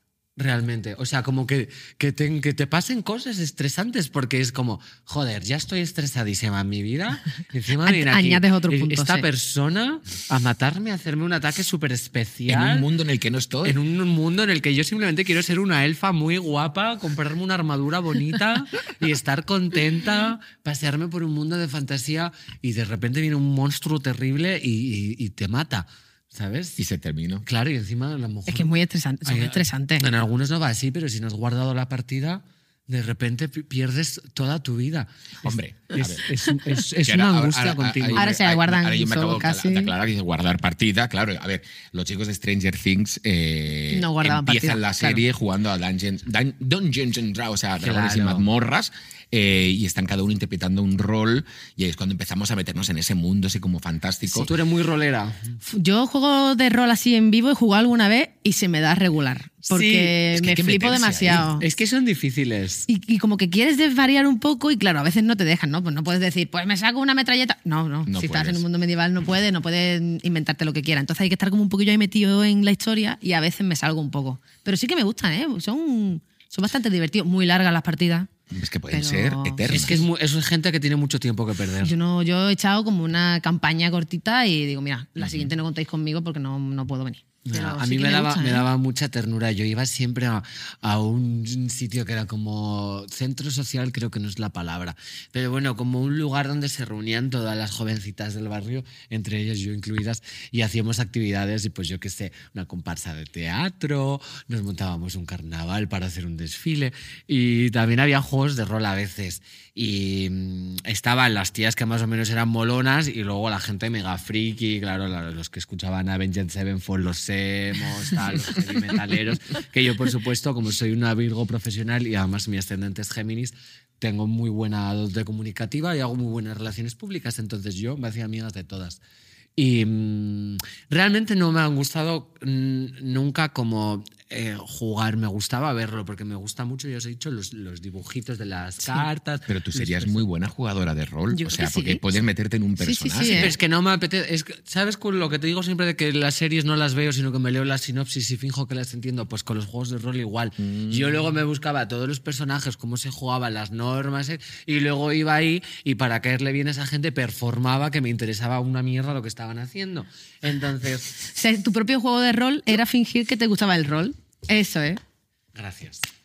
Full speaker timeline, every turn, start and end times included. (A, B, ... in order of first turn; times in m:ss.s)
0:00.4-0:12.9 A
0:07.8-0:09.3 B
0:12.5-0:13.8 C
0:13.6-0:26.8 A
0:26.8-0:27.5 C
0:27.4-0:28.7 A
0:28.5-0:30.1 B
0:29.3-0:38.3 A
0:35.4-0:36.2 C
0:37.0-0:54.5 C
0:38.2-0:39.9 B
0:43.9-0:45.2 B
0:47.8-0:48.5 A
0:54.3-0:55.6 A
0:55.7-1:01.6 B
0:59.7-1:00.2 A
1:00.3-1:01.5 C
1:01.6-1:02.9 A
1:02.9-1:18.3 B
1:08.1-1:08.6 C
1:18.5-1:20.0 C
1:18.9-1:20.0 B
1:19.7-1:21.9 A
1:21.8-1:28.7 B
1:25.2-1:25.5 C
1:27.5-2:09.0 A
2:09.6-2:20.2 A
2:19.5-2:23.6 C
2:21.3-2:22.0 B
2:22.8-2:23.5 B
2:23.2-2:41.2 A
2:30.6-2:31.2 C
2:41.3-2:45.0 B
2:45.6-2:46.0 A